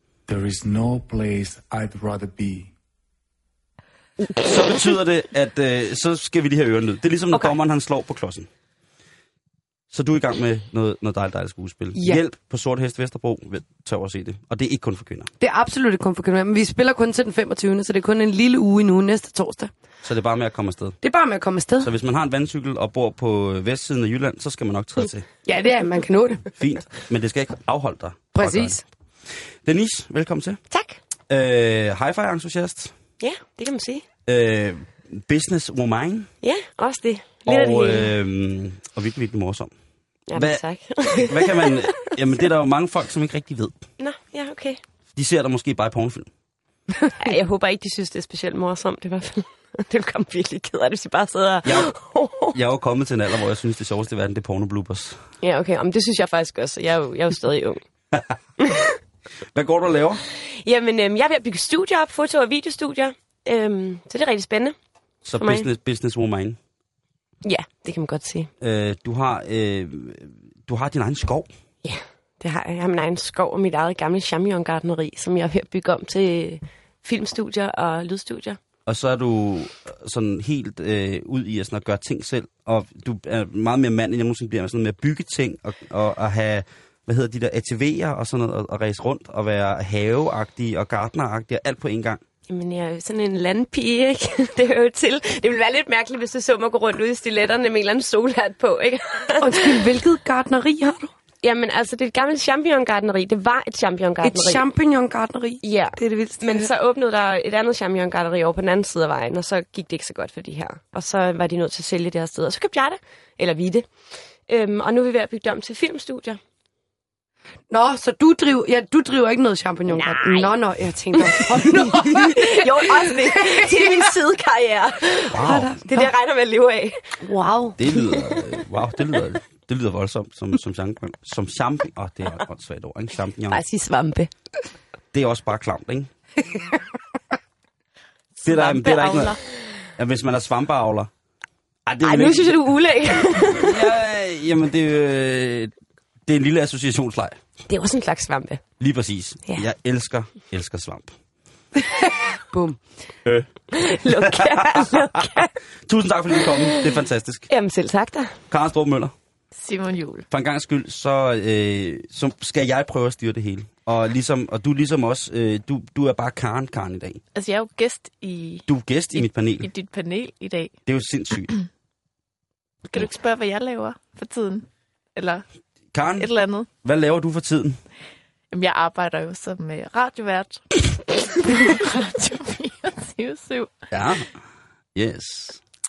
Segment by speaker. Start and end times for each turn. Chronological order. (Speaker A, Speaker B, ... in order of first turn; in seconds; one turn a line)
Speaker A: 0.3-2.7
Speaker B: 4.4-8.5
Speaker B: 9.9-15.3
Speaker C: 12.0-12.2
Speaker C: 15.4-19.7
Speaker B: 20.0-21.0
Speaker C: 21.0-21.9
Speaker B: 21.8-25.3
Speaker C: 25.4-26.5
Speaker B: 26.6-30.6
Speaker C: 28.4-28.8
Speaker D: 30.7-31.0
Speaker B: 31.3-32.9
Speaker D: 33.2-34.0
Speaker B: 34.3-36.3
Speaker D: 36.4-38.1
Speaker B: 37.5-39.7
Speaker D: 40.3-42.1
Speaker B: 40.3-43.8
Speaker D: 44.0-44.8
Speaker B: 45.1-46.3
Speaker D: 47.2-52.5
Speaker B: 51.6-51.9
Speaker B: 52.5-55.2
Speaker D: 55.4-57.8
Speaker D: 58.6-59.0
Speaker B: 59.5-60.2
Speaker D: 60.4-64.8
Speaker B: 65.2-66.6
Speaker D: 65.4-65.7
Speaker D: 67.4-68.5
Speaker B: 68.6-71.5
Speaker D: 71.8-78.6
Speaker B: 78.9-92.2
Speaker D: 92.5-99.8
Speaker C: 99.4-101.1
Speaker D: 101.4-104.6
Speaker C: 104.2-106.7
Speaker D: 105.6-113.9
Speaker D: 114.5-116.4
Speaker C: 117.7-124.1
Speaker D: 119.9-120.6
Speaker D: 121.2-127.0
Speaker B: 125.3-125.8
Speaker C: 125.4-126.1
Speaker C: 127.2-127.8
Speaker B: 127.8-133.6
Speaker D: 133.5-134.3
Speaker B: 135.1-136.1
Speaker E: 138.4-139.4
Speaker B: 138.4-139.4
Speaker B: 140.0-141.1
Speaker B: 141.9-142.6
Speaker D: 142.0-143.9
Speaker B: 143.6-145.7
Speaker B: 146.3-147.4
Speaker D: 147.7-148.6
Speaker B: 148.8-151.1
Speaker C: 151.8-152.8
Speaker B: 153.2-157.5
Speaker D: 153.7-155.5
Speaker D: 156.4-156.9
Speaker D: 157.5-158.4
Speaker B: 158.5-159.1
Speaker E: 159.6-160.2
Speaker B: 160.3-167.2
Speaker E: 167.3-170.8
Speaker B: 168.7-169.7
Speaker B: 170.9-171.6
Speaker E: 172.9-175.4
Speaker B: 175.9-176.3
Speaker E: 176.2-176.7
Speaker B: 176.8-177.8
Speaker E: 178.5-183.7
Speaker B: 183.9-184.3
Speaker B: 184.9-185.6